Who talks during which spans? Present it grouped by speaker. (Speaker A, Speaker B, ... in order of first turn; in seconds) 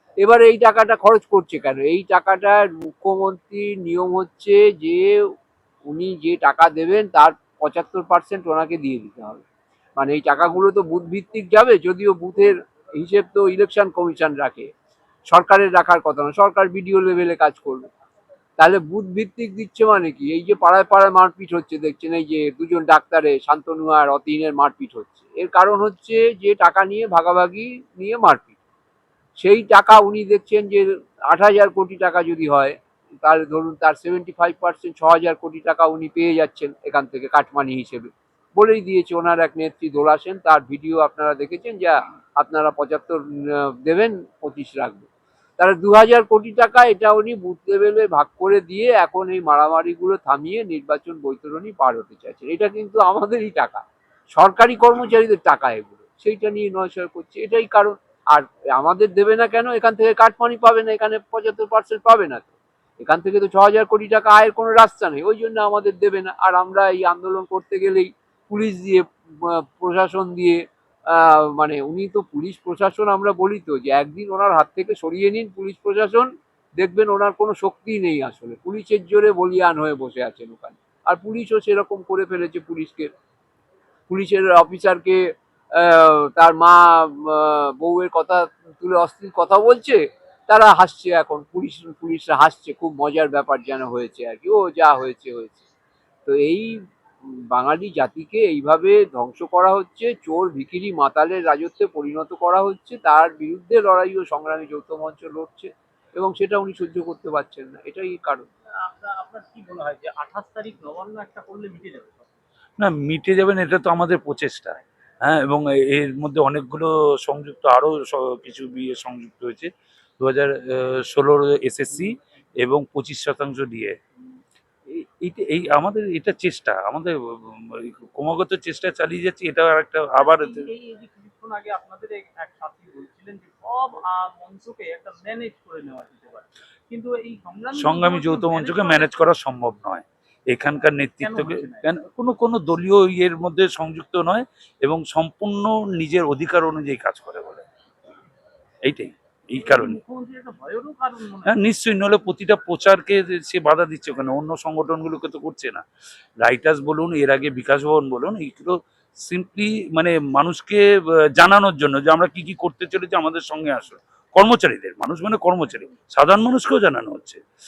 Speaker A: 0.2-5.2, 5.9-9.4, 10.0-14.7, 15.3-17.9, 18.6-28.6, 29.4-53.8, 54.4-83.1, 84.1-85.2, 85.8-95.7, 96.3-96.7, 97.5-108.5
Speaker B: 108.8-112.4, 130.2-139.3, 141.2-141.9, 149.6-151.6
Speaker C: 112.8-124.0, 124.9-130.7, 137.8-147.7, 148.9-150.0, 151.5-155.8, 156.4-160.8, 161.4-167.4